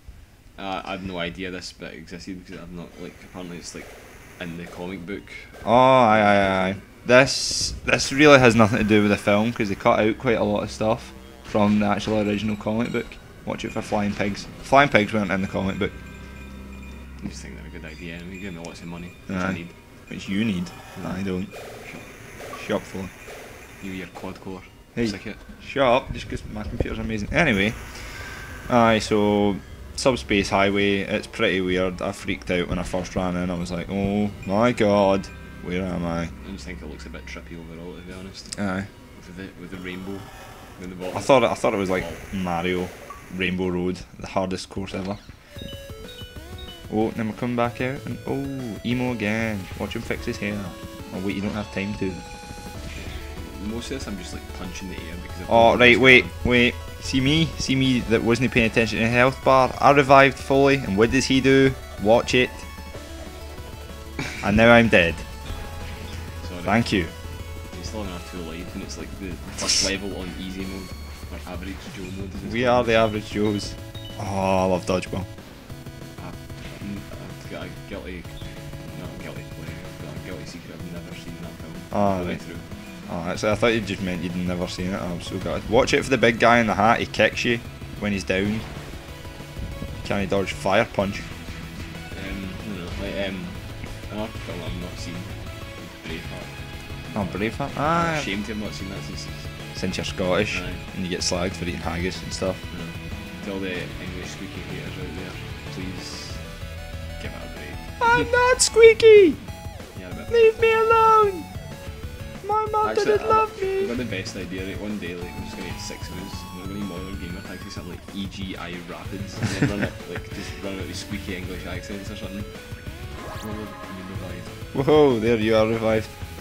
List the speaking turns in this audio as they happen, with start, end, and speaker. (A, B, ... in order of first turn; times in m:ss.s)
0:00.5-0:06.8 A
0:05.6-0:16.0 B
0:17.2-0:19.8 A
0:19.3-0:23.1 B
0:20.9-0:22.1 A
0:23.8-0:25.4 A
0:24.9-0:36.3 B
0:36.4-0:42.2 A
0:38.5-0:38.9 B
0:41.1-0:45.4 B
0:46.9-0:52.2 B
0:52.9-0:56.3 A
0:55.5-1:02.7 B
1:04.4-1:05.3 B
1:06.4-1:06.8 A
1:06.6-1:07.1 B
1:07.6-1:13.0 A
1:12.4-1:15.3 B
1:16.2-1:22.7 A
1:21.9-1:28.7 B
1:30.0-1:31.3 B
1:32.1-1:39.8 A
1:37.1-1:38.3 B
1:39.7-1:42.7 B
1:40.5-1:40.8 A
1:42.7-1:48.2 A
1:48.0-1:49.8 B
1:49.9-1:50.4 A
1:50.3-1:51.6 B
1:52.4-1:53.9 B
1:52.8-2:04.6 A
2:04.7-2:06.1 B